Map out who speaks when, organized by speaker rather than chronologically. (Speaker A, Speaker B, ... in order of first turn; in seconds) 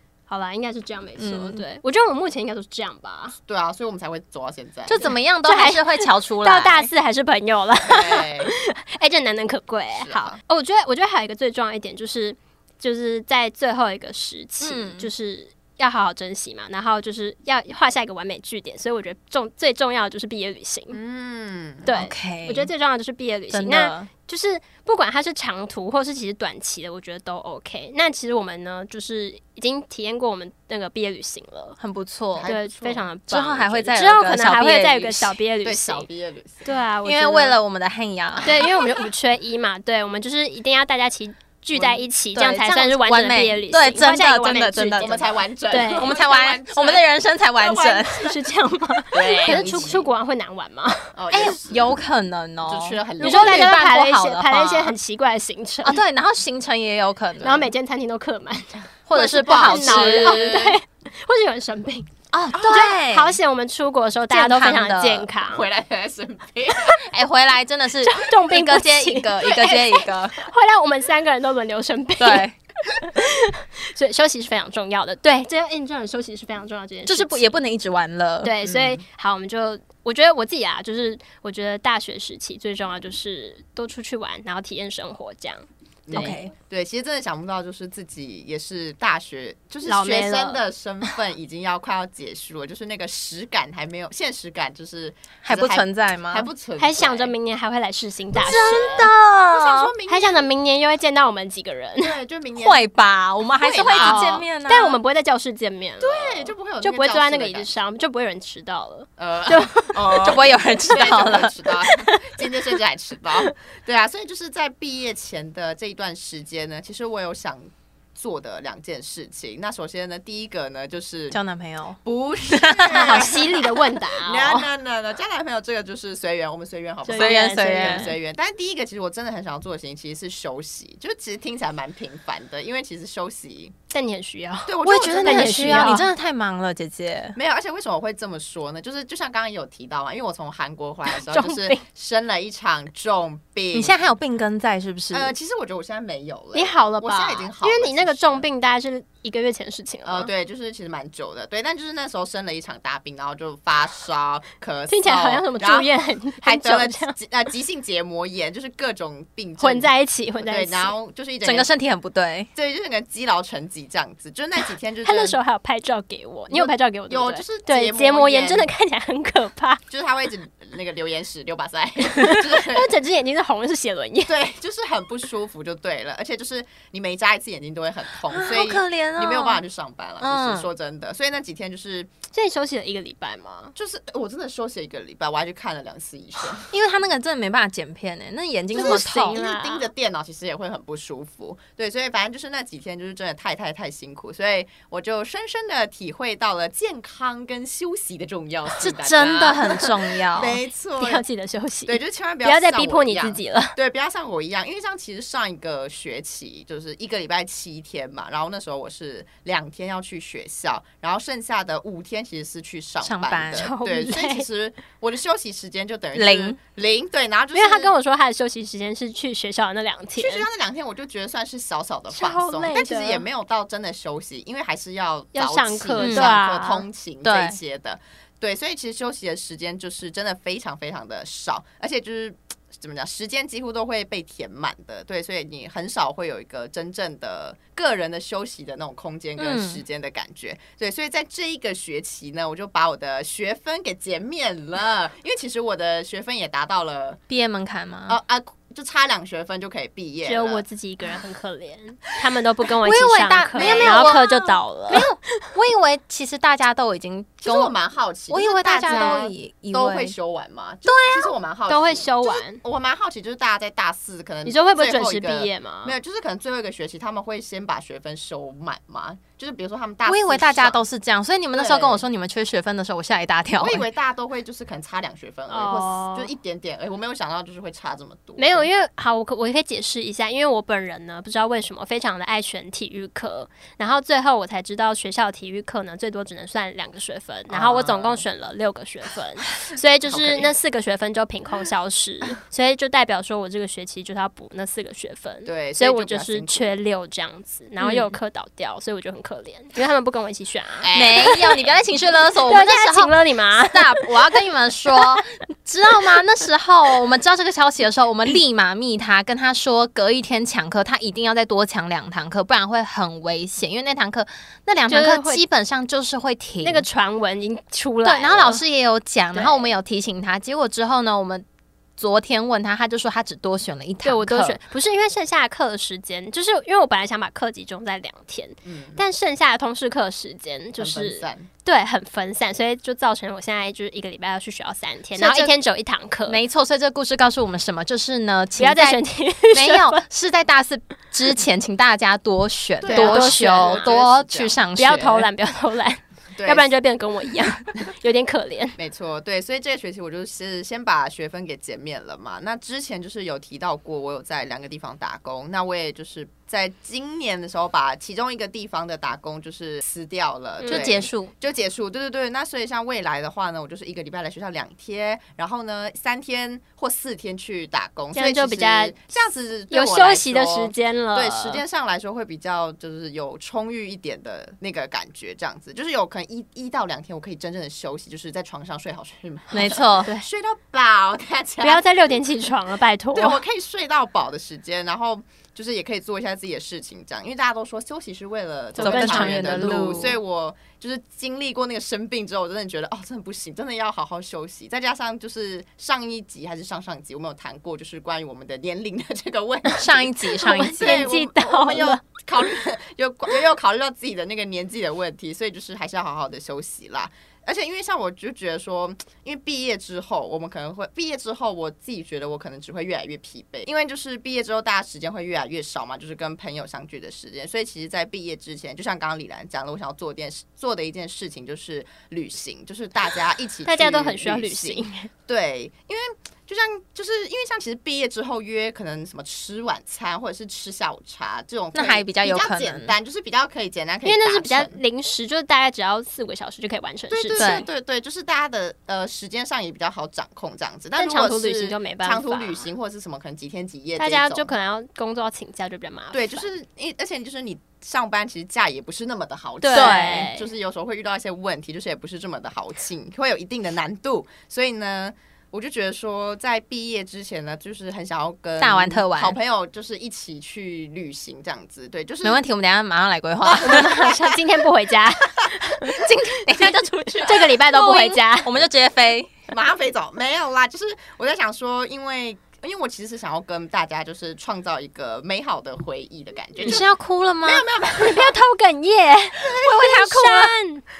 Speaker A: 0.3-3.4, 5.4-21.0, 21.8-31.8, 32.4-36.1, 36.6-37.6, 38.4-46.1, 48.1-51.1, 53.2-56.0, 57.4-58.8, 59.5-62.1, 62.6-65.7, 68.0-77.6, 78.4-85.6, 89.8-91.1, 96.8-99.1, 100.1-102.2, 103.8-110.4, 111.8-112.5, 122.9-124.7, 127.0-128.1, 133.9-136.0, 141.1-141.8, 146.5-150.3, 154.9-157.1, 159.6-160.9, 165.0-169.8, 172.1-174.4, 182.3-183.7, 188.8-189.9, 201.0-203.8, 213.5-214.4, 217.5-220.5, 222.1-223.2, 225.3-226.8, 250.2-255.1, 261.7-262.6, 264.4-265.9, 275.5-276.3, 278.4-301.6, 302.4-304.2, 314.9-315.4, 316.6-318.6, 319.3-319.7, 324.0-336.4, 338.6-340.0, 342.9-344.0, 344.8-348.8, 360.6-360.9, 368.1-368.9, 369.7-371.6, 381.6-383.4, 388.7-390.0, 399.7-402.0, 423.6-425.1, 434.0-437.6, 440.9-442.7, 444.0-446.5, 449.6-450.5, 463.6-466.0, 467.2-468.5, 477.9-480.8
Speaker B: 1.2-1.6, 4.8-6.9, 14.6-15.1, 21.9-22.7, 23.5-24.1, 31.8-32.5, 33.3-35.4, 37.0-38.9, 42.3-45.3, 45.8-48.3, 49.4-50.0, 51.3-55.0, 55.8-57.7, 59.1-60.6, 62.3-63.4, 64.3-65.3, 66.9-70.4, 72.2-72.5, 77.0-78.5, 86.1-86.5, 95.4-96.5, 98.3-99.9, 102.5-105.0, 110.2-111.5, 121.3-123.4, 127.1-128.1, 134.8-137.4, 143.7-145.3, 161.4-162.5, 178.3-179.6, 180.2-180.7, 186.7-189.4, 198.8-200.6, 213.0-213.7, 216.1-216.6, 226.0-226.3, 227.2-227.6, 239.4-239.8, 247.3-248.2, 252.8-257.7, 258.3-260.1, 260.9-261.3, 270.1-273.8, 297.8-298.1, 300.9-316.9, 318.0-321.4, 322.0-324.6, 335.1-335.5, 336.3-345.3, 360.7-361.3, 379.5-380.1, 388.8-390.2, 399.8-401.1, 431.7-432.9, 437.4-437.7, 449.7-450.3, 458.6-459.4, 462.2-464.1, 465.8-469.3, 476.6-477.6, 479.6-480.5
Speaker C: 3.5-5.1, 7.8-8.5, 9.9-10.4, 20.9-21.9, 32.4-33.1, 35.6-36.7, 41.7-42.0, 45.0-48.3, 49.1-50.0, 51.1-51.9, 52.6-53.7, 59.1-60.8, 62.6-62.9, 65.4-67.0, 78.6-79.0, 86.0-97.3, 99.5-100.5, 102.0-102.8, 103.6-104.3, 106.0-107.7, 109.2-121.4, 122.0-133.7, 134.7-136.1, 137.3-144.1, 145.1-148.4, 150.0-161.7, 162.5-165.4, 166.5-168.7, 169.9-172.9, 174.2-182.1, 183.8-186.7, 188.7-201.2, 201.8-217.9, 220.2-247.2, 248.1-250.6, 253.6-254.2, 257.4-270.8, 271.5-272.0, 273.6-278.7, 287.5-288.2, 290.1-290.5, 295.4-296.7, 300.8-301.6, 328.6-329.0, 330.8-331.5, 342.8-344.7, 346.4-346.7, 348.8-381.9, 383.1-434.8, 437.1-444.5, 446.1-462.4, 463.4-464.4, 466.6-467.5, 469.5-476.9, 477.4-478.4, 479.4-479.8